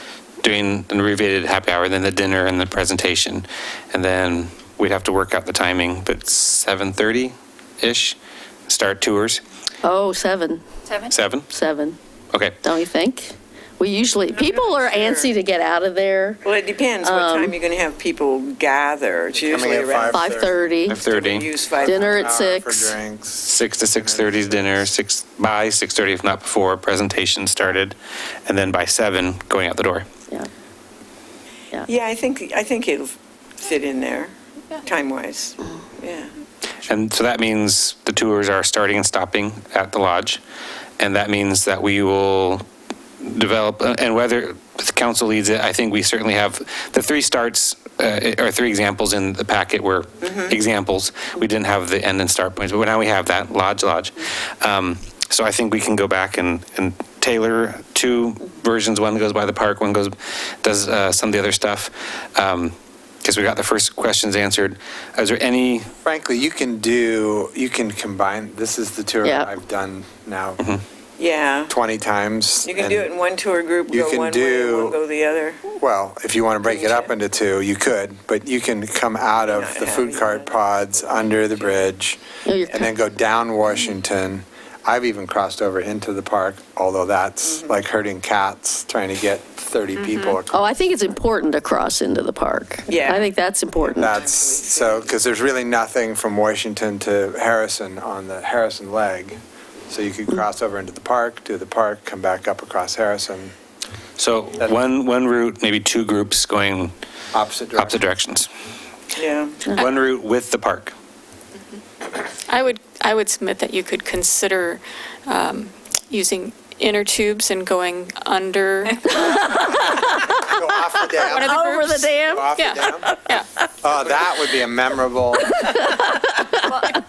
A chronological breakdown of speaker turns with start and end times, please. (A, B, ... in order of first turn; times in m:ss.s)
0:00.4-0:08.2 A
0:08.7-0:09.4 A
0:09.8-0:10.6 B
0:11.1-0:11.5 A
0:11.5-0:12.0 B
0:12.6-0:17.6 B
0:14.3-0:15.4 C
0:16.4-0:22.3 C
0:19.4-0:20.6 D
0:20.1-0:21.1 B
0:20.9-0:21.5 A
0:21.8-0:23.0 B
0:21.8-0:24.9 D
0:23.4-0:30.1 A
0:31.9-0:36.3 C
0:36.8-0:40.4 A
0:41.0-0:42.6 A
0:43.2-1:05.9 A
1:06.0-1:10.6 D
1:09.2-1:09.5 B
1:11.2-1:11.8 C
1:11.7-1:13.1 D
1:12.6-1:15.6 C
1:13.9-1:15.0 D
1:15.7-1:31.0 D
1:16.6-1:17.1 C
1:19.5-1:21.9 C
1:22.4-1:23.0 B
1:27.4-1:27.8 C
1:30.0-1:30.4 E
1:30.5-1:34.2 B
1:32.9-1:35.2 C
1:34.0-1:43.5 D
1:44.2-1:46.9 A
1:47.3-1:48.0 D
1:47.8-1:48.5 A
1:49.2-1:49.7 C
1:49.7-1:50.9 A
1:52.5-1:59.3 E
1:59.2-2:00.4 B
2:00.5-2:01.6 D
2:01.2-2:03.5 E
2:01.4-2:03.3 B
2:02.3-2:03.1 D
2:03.8-2:05.7 D
2:05.6-2:06.5 B